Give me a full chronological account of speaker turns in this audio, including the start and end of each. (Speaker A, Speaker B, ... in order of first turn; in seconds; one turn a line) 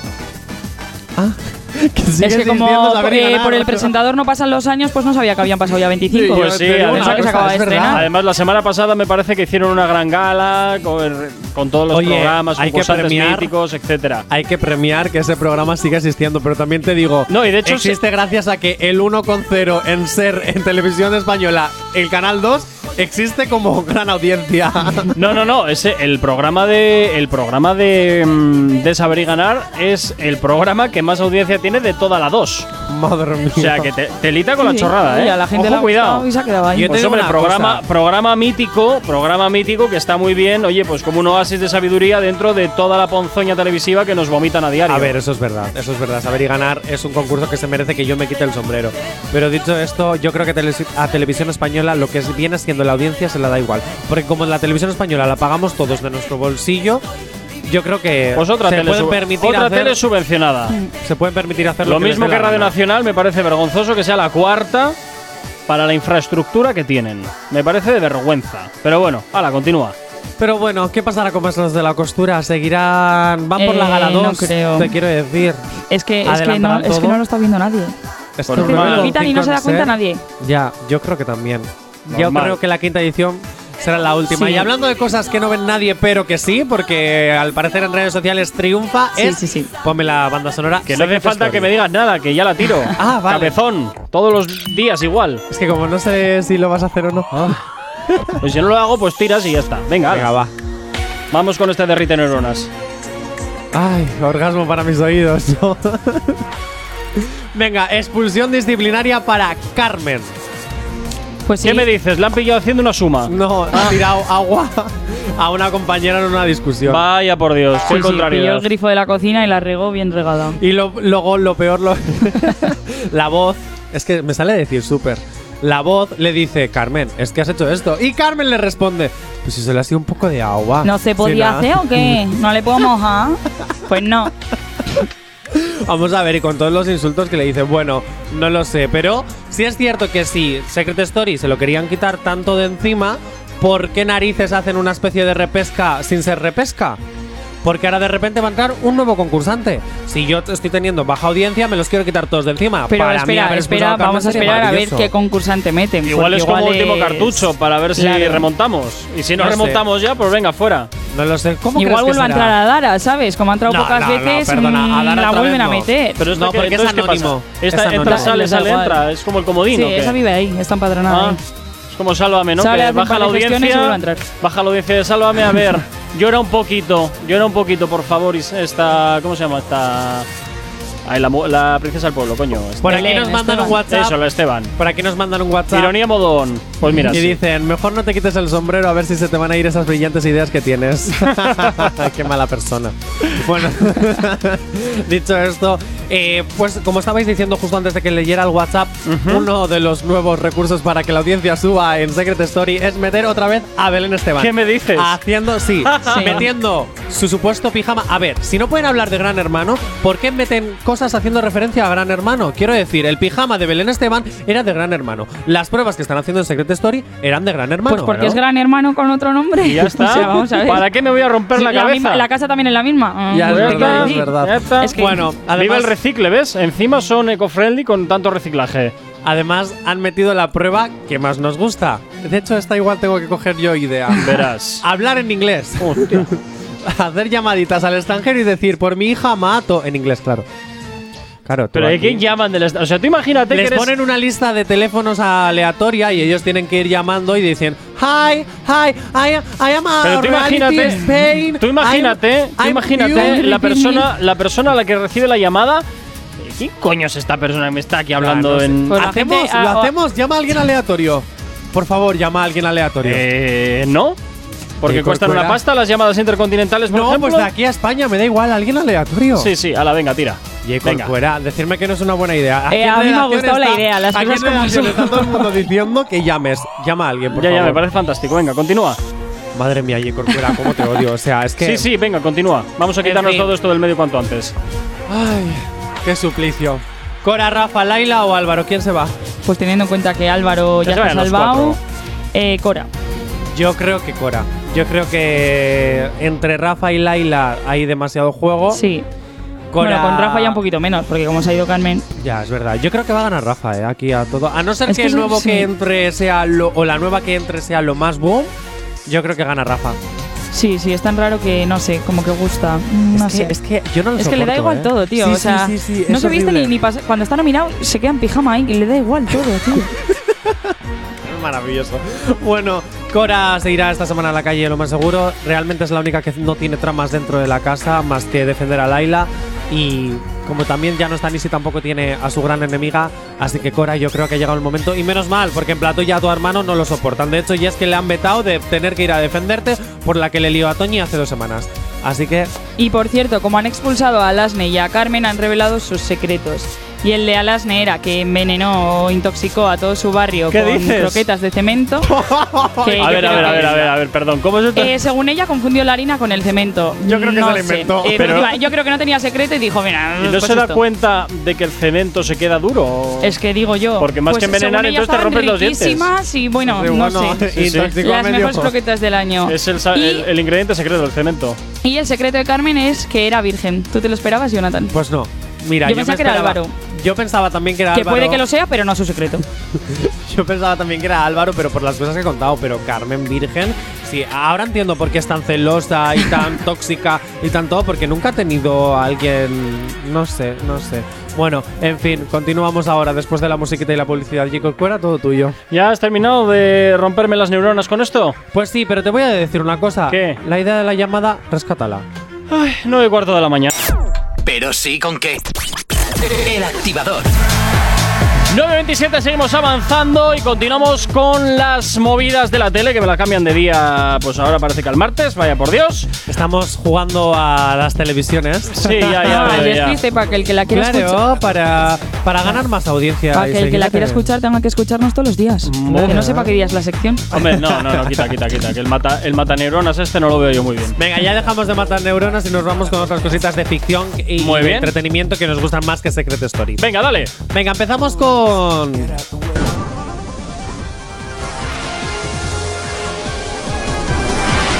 Speaker A: 1.1-3.9
Speaker B: 2.2-8.0
Speaker A: 6.1-8.1
Speaker C: 6.3-14.2
Speaker A: 11.9-13.5
Speaker A: 14.3-25.1
Speaker C: 17.3-18.0
Speaker C: 25.1-32.7
Speaker A: 32.9-33.9
Speaker C: 33.5-36.2
Speaker B: 34.6-37.0
Speaker A: 36.7-37.8
Speaker C: 36.9-45.1
Speaker A: 44.9-57.0
Speaker A: 57.6-60.0
Speaker C: 58.3-60.7
Speaker A: 60.9-62.7
Speaker C: 61.8-65.0
Speaker C: 65.7-70.0
Speaker A: 70.4-75.6
Speaker B: 73.5-74.9
Speaker B: 75.9-77.9
Speaker A: 76.2-77.2
Speaker A: 78.4-91.7
Speaker C: 78.5-79.1
Speaker B: 78.5-80.2
Speaker C: 82.1-82.6
Speaker B: 84.3-84.7
Speaker B: 89.2-89.7
Speaker C: 90.9-95.4
Speaker A: 92.9-93.6
Speaker A: 95.5-98.4
Speaker C: 98.4-100.3
Speaker A: 100.1-100.5
Speaker C: 101.3-102.7
Speaker A: 103.7-106.4
Speaker A: 107.2-110.3
Speaker B: 111.5-111.8
Speaker C: 111.6-113.9
Speaker A: 113.2-117.0
Speaker C: 116.8-118.7
Speaker B: 117.8-120.6
Speaker A: 120.6-132.2
Speaker B: 130.8-134.3
Speaker A: 135.5-147.0
Speaker A: 147.6-155.1
Speaker B: 152.9-157.4
Speaker C: 156.0-160.9
Speaker B: 157.9-158.5
Speaker A: 159.4-159.8
Speaker A: 161.1-162.6
Speaker B: 161.7-166.2
Speaker A: 163.7-168.3
Speaker C: 166.2-170.2
Speaker B: 168.0-169.0
Speaker B: 169.7-171.4
Speaker C: 171.1-171.4
Speaker C: 171.9-180.3
Speaker B: 172.6-174.2
Speaker C: 181.0-183.1
Speaker A: 182.8-184.2
Speaker B: 182.8-183.8
Speaker C: 183.9-184.7
Speaker A: 184.8-186.0
Speaker C: 185.7-187.4
Speaker A: 187.0-218.4
Speaker C: 191.2-192.0
Speaker C: 199.1-199.5
Speaker C: 204.4-205.2
Speaker C: 205.8-206.4
Speaker B: 206.0-206.4
Speaker B: 217.8-220.9
Speaker C: 219.6-222.3
Speaker B: 221.5-225.3
Speaker A: 223.3-225.9
Speaker C: 223.4-224.9
Speaker C: 225.5-228.9
Speaker A: 229.2-240.4
Speaker C: 234.2-234.8
Speaker C: 235.8-236.3
Speaker A: 241.4-242.2
Speaker C: 241.7-243.9
Speaker A: 243.5-253.6
Speaker C: 250.0-251.0
Speaker C: 251.6-255.8
Speaker B: 253.1-254.1
Speaker C: 256.4-259.0
Speaker A: 258.2-263.2
Speaker B: 258.9-259.9
Speaker C: 263.0-264.2
Speaker C: 264.8-267.5
Speaker A: 264.8-265.6
Speaker A: 266.9-269.5
Speaker C: 269.4-271.1
Speaker A: 270.6-277.8
Speaker B: 272.7-275.5
Speaker C: 277.3-279.0
Speaker A: 279.5-281.9
Speaker C: 281.6-284.5
Speaker A: 283.0-283.5
Speaker A: 285.1-289.1
Speaker B: 289.4-291.8
Speaker C: 290.8-291.8
Speaker B: 292.3-292.9
Speaker A: 293.5-298.8
Speaker B: 298.7-299.0
Speaker A: 299.7-300.6
Speaker B: 299.8-302.1
Speaker A: 302.2-308.5
Speaker B: 304.9-305.7
Speaker A: 309.1-310.0
Speaker B: 310.5-313.5
Speaker A: 313.1-316.7
Speaker B: 314.1-319.9
Speaker A: 319.3-342.5
Speaker B: 342.8-352.1
Speaker C: 350.5-351.2
Speaker A: 352.0-353.9
Speaker B: 352.8-353.9
Speaker C: 353.0-354.9
Speaker B: 354.7-360.8
Speaker A: 357.0-358.5
Speaker C: 358.2-358.5
Speaker C: 360.2-363.4
Speaker B: 363.2-370.3
Speaker C: 364.0-366.1
Speaker A: 366.6-368.7
Speaker C: 367.5-367.9
Speaker C: 369.4-371.6
Speaker B: 371.8-374.9
Speaker A: 374.9-378.4
Speaker B: 375.8-376.7
Speaker B: 377.9-379.4
Speaker A: 379.7-395.6
Speaker C: 395.7-398.4
Speaker A: 398.5-402.1
Speaker C: 400.1-400.4
Speaker C: 402.5-403.7
Speaker D: 404.4-405.5
Speaker D: 406.2-407.3
Speaker C: 408.5-416.1
Speaker A: 416.3-419.8
Speaker C: 418.8-420.0
Speaker B: 419.2-421.2
Speaker A: 420.7-424.2
Speaker B: 423.3-427.3
Speaker C: 425.6-426.4
Speaker A: 425.9-426.5
Speaker C: 427.3-430.9
Speaker A: 427.4-428.3
Speaker A: 431.0-436.8
Speaker C: 434.4-434.9
Speaker C: 436.8-437.3
Speaker A: 437.4-439.2